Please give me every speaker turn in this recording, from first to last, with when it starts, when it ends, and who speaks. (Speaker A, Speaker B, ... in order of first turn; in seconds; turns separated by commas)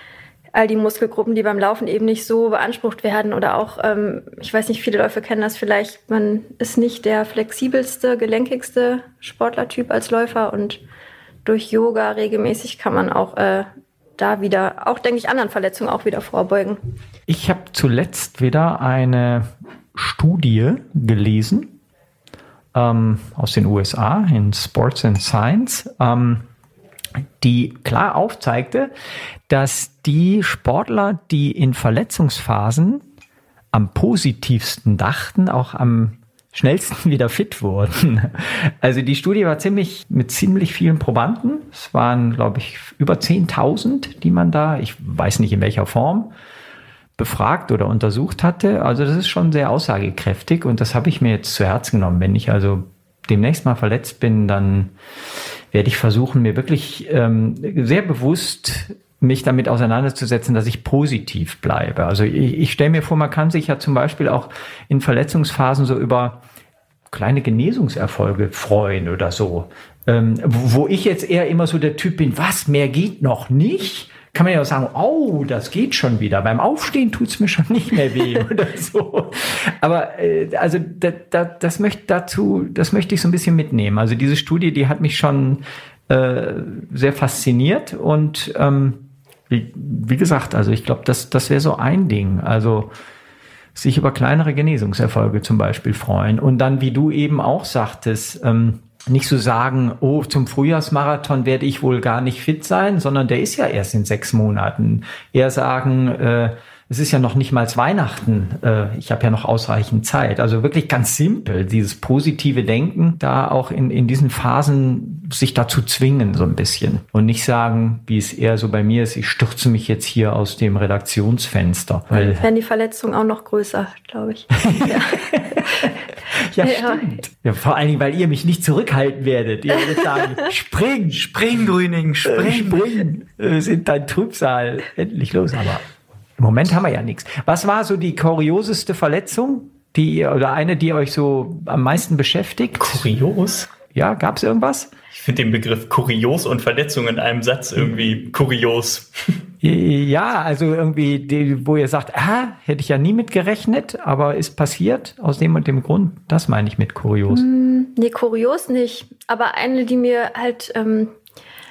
Speaker A: 0.5-10.8, Speaker A: 11.4-16.8, Speaker B: 17.3-21.8, Speaker B: 22.7-26.4, Speaker B: 27.4-28.9, Speaker B: 29.5-33.0, Speaker B: 33.7-46.3, Speaker B: 47.2-54.9, Speaker B: 55.7-66.4, Speaker B: 67.1-92.9, Speaker B: 93.8-122.5, Speaker A: 122.1-125.9, Speaker B: 124.6-131.3, Speaker A: 126.6-127.2, Speaker C: 131.1-132.9, Speaker B: 132.2-135.8, Speaker B: 136.4-143.1, Speaker C: 142.8-143.7, Speaker B: 143.9-144.9, Speaker C: 145.1-149.4, Speaker B: 149.6-157.4, Speaker A: 157.3-161.2